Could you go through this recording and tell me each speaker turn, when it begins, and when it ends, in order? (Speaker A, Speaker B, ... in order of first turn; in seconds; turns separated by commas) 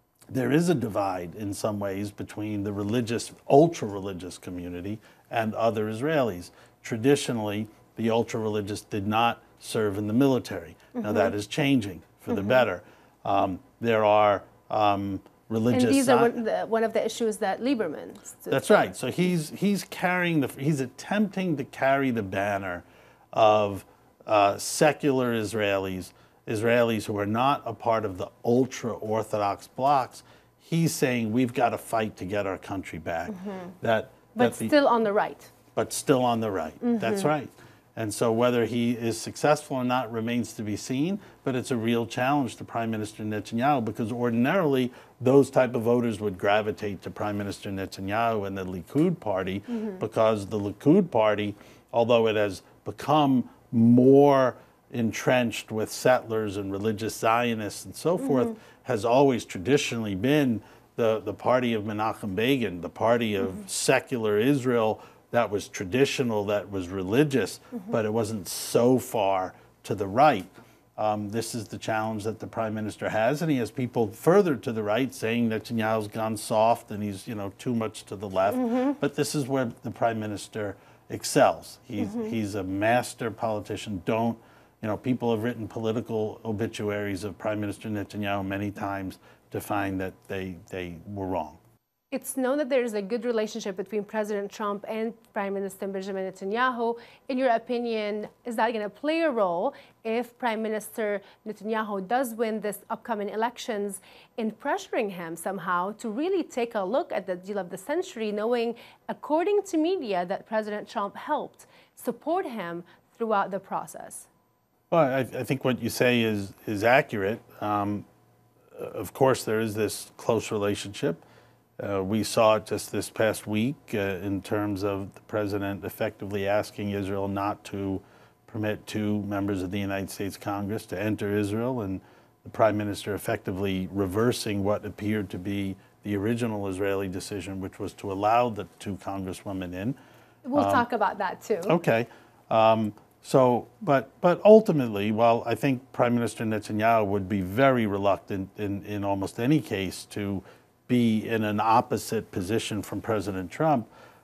Speaker A: 0.3-16.3, Speaker B: 11.0-11.3, Speaker B: 15.7-18.9, Speaker A: 18.5-34.7, Speaker B: 33.3-33.7, Speaker B: 34.4-35.5, Speaker A: 35.7-91.6, Speaker B: 36.8-37.3, Speaker B: 78.6-79.0, Speaker B: 82.1-82.3, Speaker B: 92.1-114.3, Speaker A: 114.9-118.1, Speaker A: 118.7-121.2, Speaker A: 121.8-140.0, Speaker B: 140.4-141.8, Speaker A: 140.6-140.9, Speaker A: 141.7-153.9